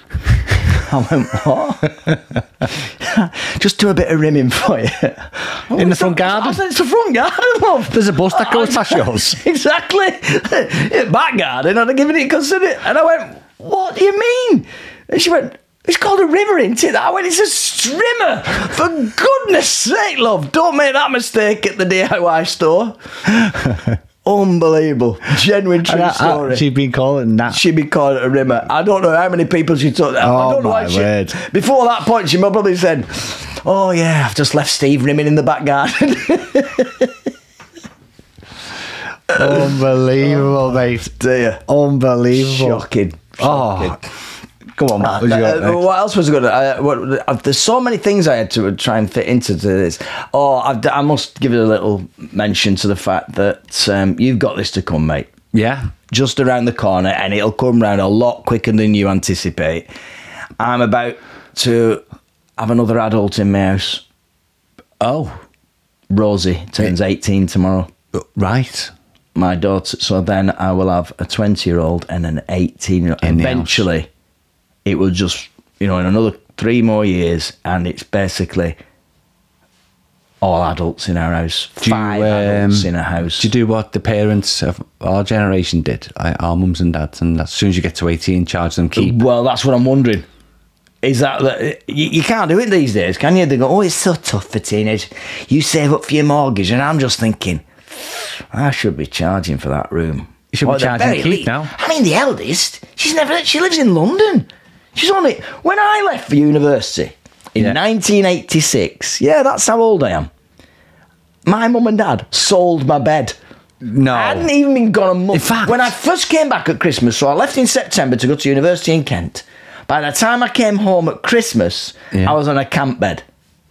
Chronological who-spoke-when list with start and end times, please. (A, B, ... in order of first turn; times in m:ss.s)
0:00.6-0:26.6 A
0:05.7-0:06.6 B
0:07.9-0:09.4 B
0:25.8-0:27.6 B
0:27.5-0:37.2 A
0:30.2-0:31.4 B
0:39.3-0:41.6 A
0:39.3-0:41.1 B
0:41.6-0:42.8 B
0:42.3-0:44.0 A
0:43.4-0:44.0 B
0:44.8-0:45.8 B
0:45.0-0:55.3 A
0:55.5-0:55.9 B
0:56.1-0:59.9 A
1:00.6-1:02.0 A
1:02.6-1:04.0 A
1:05.0-1:05.4 B
1:06.1-1:07.9 A
1:08.1-1:08.9 B
1:09.3-1:14.1 A
1:13.2-1:13.8 B
1:14.8-1:18.8 A
1:20.4-1:23.5 A
1:21.8-1:29.2 B
1:29.0-1:30.3 A
1:31.0-1:50.3 A
1:40.5-1:41.7 B
1:51.4-1:53.4 A
1:53.8-1:54.5 B
1:54.1-2:03.2 A
1:55.3-1:55.9 B